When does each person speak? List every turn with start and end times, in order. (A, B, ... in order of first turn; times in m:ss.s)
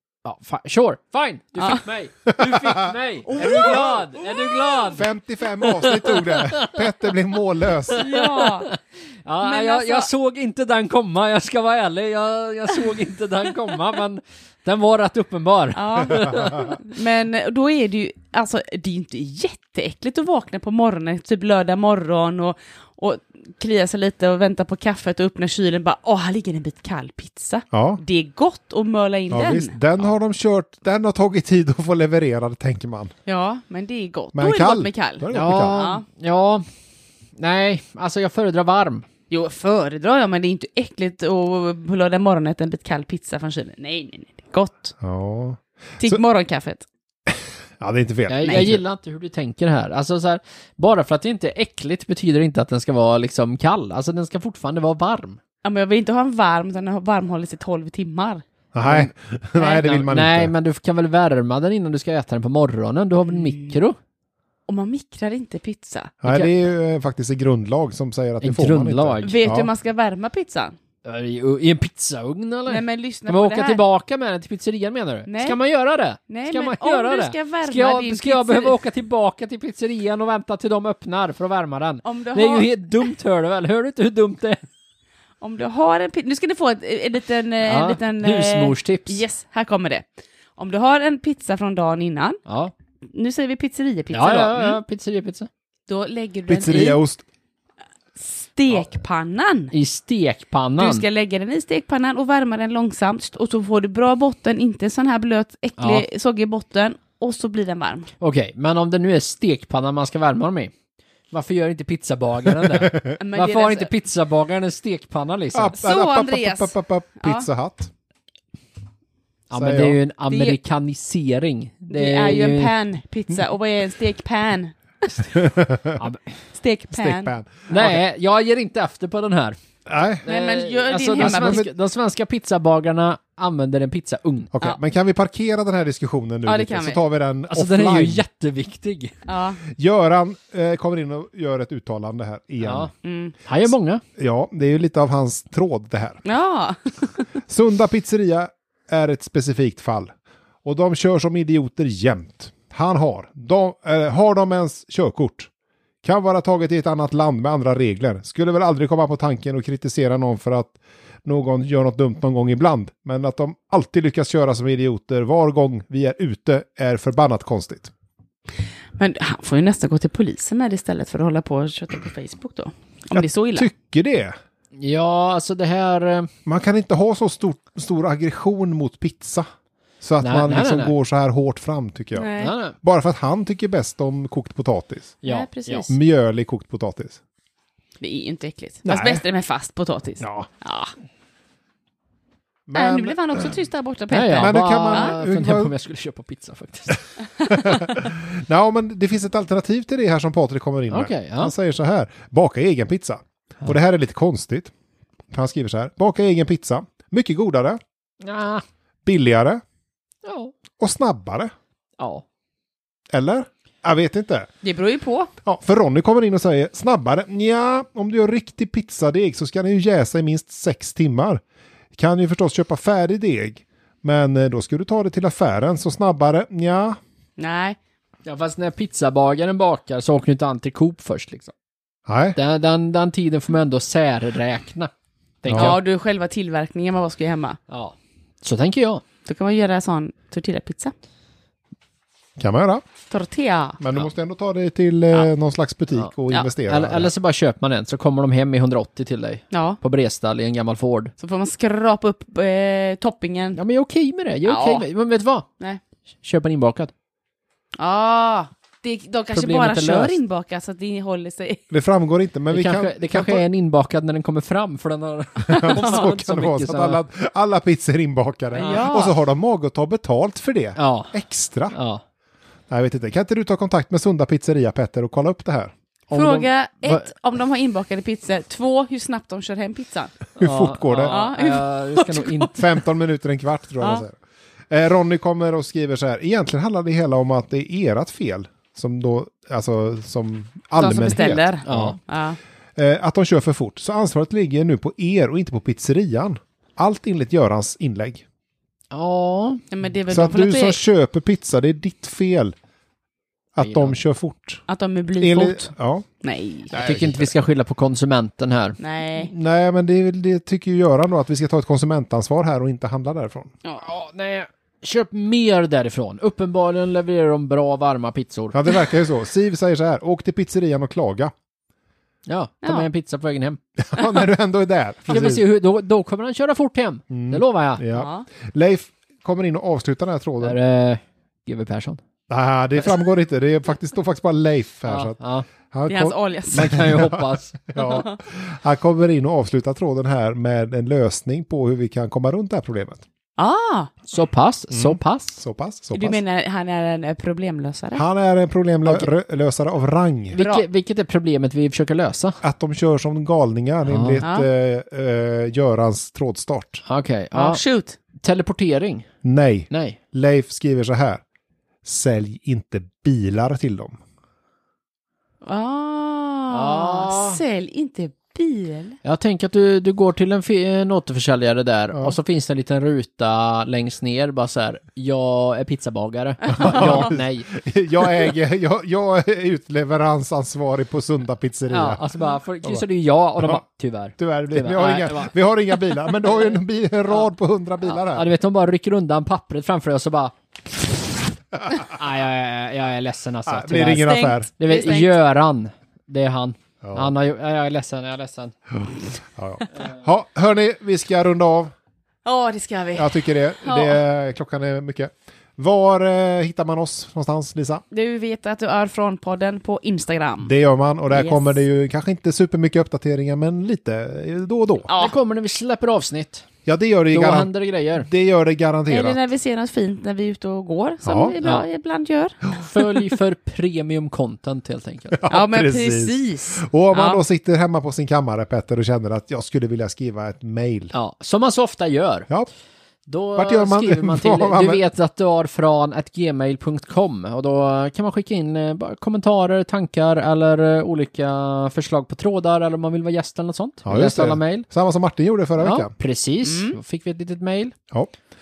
0:00.2-0:05.1 A
0:03.3-0:04.4 B
0:03.4-0:03.7 C
0:04.9-0:08.0 C
0:05.6-0:06.8 A
0:07.9-0:16.8 A
0:07.9-0:08.7 B
0:09.4-0:10.1 B
0:15.7-0:29.8 B
0:27.7-0:28.0 C
0:29.3-0:33.1 C
0:33.2-0:36.0 B
0:34.3-0:35.7 C
0:35.3-0:36.6 A
0:37.4-0:39.1 A
0:39.3-0:44.9 B
0:45.0-0:46.2 C
0:46.0-0:46.9 B
0:47.3-0:48.8 C
0:48.3-0:55.4 A
0:48.4-0:48.7 B
0:55.6-0:58.4 B
0:58.7-1:00.5 C
0:58.8-1:04.0 A
1:04.7-1:06.5 B
1:06.2-1:09.7 C
1:08.4-1:09.4 A
1:09.2-1:10.8 B
1:11.0-1:24.6 A
1:12.7-1:13.8 B
1:15.3-1:15.6 B
1:16.3-1:18.8 B
1:22.0-1:23.1 B
1:25.4-1:32.4 B
1:27.6-1:29.2 A
1:32.4-1:32.7 A
1:33.1-1:34.8 B
1:34.1-1:35.5 A
1:35.9-1:37.0 B
1:36.5-1:37.2 C
1:38.2-1:39.7 B
1:39.7-1:41.0 A
1:40.8-1:48.1 B
1:45.8-1:46.0 A
1:48.2-1:50.7 A
1:51.3-1:55.8 A
1:52.8-1:53.0 C
1:53.2-1:53.9 B
1:55.5-1:57.9 C
1:55.8-1:57.5 B
1:59.5-2:02.7 A
1:59.5-2:00.0 C
2:00.3-2:00.6 B
2:01.9-2:05.3 B
2:05.3-2:06.0 C
2:06.0-2:06.3 A
2:06.5-2:07.3 B
2:06.9-2:08.0 C
2:07.7-2:09.6 A
2:09.8-2:10.2 C
2:10.2-2:14.5 A
2:10.3-2:11.6 B
2:11.2-2:11.7 C
2:14.5-2:18.2 C
2:16.4-2:17.0 B
2:17.5-2:19.1 A
2:19.3-2:19.6 B
2:19.7-2:22.9 C
2:22.6-2:22.9 A
2:23.0-2:23.3 B
2:23.4-2:24.0 A
2:24.2-2:26.2 C
2:26.2-2:27.2 B
2:27.5-2:30.1 C
2:30.6-2:35.5 C
2:36.0-2:47.9 C
2:49.0-2:53.7 B
2:53.1-2:54.4 C
2:54.8-2:56.3 A
2:56.4-2:59.5 C
3:00.0-3:05.2 C
3:00.2-3:00.9 A
3:02.1-3:02.5 B
3:02.4-3:02.7 A
3:05.2-3:05.9 A
3:05.2-3:06.0 B
3:05.9-3:07.2 C
3:08.0-3:10.9 B
3:08.8-3:09.2 C
3:10.2-3:10.5 C
3:12.7-3:13.6 C
3:12.7-3:15.1 B
3:14.1-3:17.0 A
3:14.3-3:15.7 C
3:17.4-3:24.7 C
3:20.9-3:21.5 A
3:25.3-3:27.8 C
3:28.2-3:28.6 A
3:29.0-3:29.6 C
3:30.2-3:30.5 A
3:30.8-3:31.5 C
3:32.0-3:32.2 A
3:33.1-3:34.5 C
3:34.6-3:35.3 B
3:35.4-3:41.4 C
3:42.0-3:47.0 C
3:47.4-3:47.8 B
3:48.2-3:51.5 A
3:52.1-3:52.4 C
3:52.4-3:54.9 A
3:55.4-3:55.8 A
3:55.4-3:55.8 C
3:55.5-3:57.6 B
3:57.7-3:59.0 A
3:59.2-4:00.9 B
4:02.4-4:02.8 C
4:03.1-4:03.8 B
4:03.8-4:07.1 C
4:06.6-4:11.1 A
4:09.5-4:09.8 B
4:11.2-4:13.6 B
4:13.6-4:15.5 A
4:14.4-4:14.8 B
4:16.2-4:16.9 A
4:17.8-4:21.6 B
4:19.3-4:20.2 A
4:21.7-4:23.4 C
4:22.5-4:27.0 A
4:25.4-4:31.8 C
4:25.6-4:26.1 B
4:28.5-4:29.1 B
4:28.6-4:29.0 A
4:30.8-4:31.1 A
4:31.7-4:32.0 A
4:32.7-4:35.7 C
4:36.1-4:37.1 A
4:36.1-4:40.2 B
4:40.4-4:42.6 A
4:40.4-4:41.2 C
4:41.1-4:42.8 B
4:42.6-4:44.2 C
4:44.7-4:52.0 C
4:50.8-4:52.4 B
4:51.6-4:52.0 A
4:52.8-4:58.2 C
4:58.9-4:59.6 A
4:59.7-5:00.8 B
5:00.1-5:02.5 C
5:03.5-5:04.6 C
5:03.6-5:03.9 A
5:04.7-5:05.7 B
5:05.2-5:06.0 C
5:06.2-5:06.7 B
5:06.7-5:07.3 C
5:06.7-5:08.8 A
5:08.8-5:09.3 B
5:09.2-5:13.5 C
5:13.8-5:18.7 A
5:18.5-5:21.3 C
5:22.3-5:23.6 A
5:23.8-5:25.4 C
5:25.1-5:27.8 A
5:27.1-5:30.6 C
5:27.9-5:28.2 B
5:30.4-5:32.0 A
5:32.3-5:43.0 C
5:34.9-5:35.5 A
5:35.9-5:36.8 B
5:36.5-5:37.6 A
5:37.8-5:38.2 B
5:43.4-5:43.9 B
5:44.1-5:45.4 A
5:44.7-5:46.2 C
5:45.9-5:48.0 B
5:47.9-5:50.4 C
5:50.3-5:52.4 A
5:50.4-5:50.6 B
5:52.4-5:56.8 C
5:53.8-5:54.2 A
5:54.2-5:54.5 B
5:56.8-5:57.6 A
5:57.3-5:58.0 B
5:58.2-5:59.1 A
5:59.2-6:01.2 C
5:59.7-6:00.0 A
6:01.8-6:04.0 C
6:05.4-6:09.0 B
6:06.5-6:07.4 A
6:09.0-6:17.5 A
6:16.5-6:17.0 B
6:16.5-6:22.1 C
6:21.7-6:25.3 A
6:23.4-6:23.6 C
6:24.2-6:28.3 C
6:28.1-6:30.3 A
6:31.8-6:38.5 A
6:33.4-6:34.5 C
6:33.9-6:35.2 B
6:36.8-6:37.1 C
6:39.3-6:41.7 C
6:42.2-6:44.0 B
6:42.9-6:47.8 C
6:47.9-6:50.5 B
6:50.4-6:54.9 C
6:51.1-6:51.5 B
6:54.9-6:55.1 B
6:54.9-6:56.4 A
6:56.6-6:59.2 C
6:57.1-6:58.1 A
6:58.9-7:02.6 B
7:01.0-7:01.3 C
7:02.5-7:05.2 A
7:05.1-7:10.9 C
7:05.3-7:07.2 B
7:10.9-7:12.3 A
7:13.1-7:24.7 A
7:13.4-7:14.8 C
7:23.8-7:25.9 C
7:25.6-7:27.7 A
7:26.4-7:26.8 B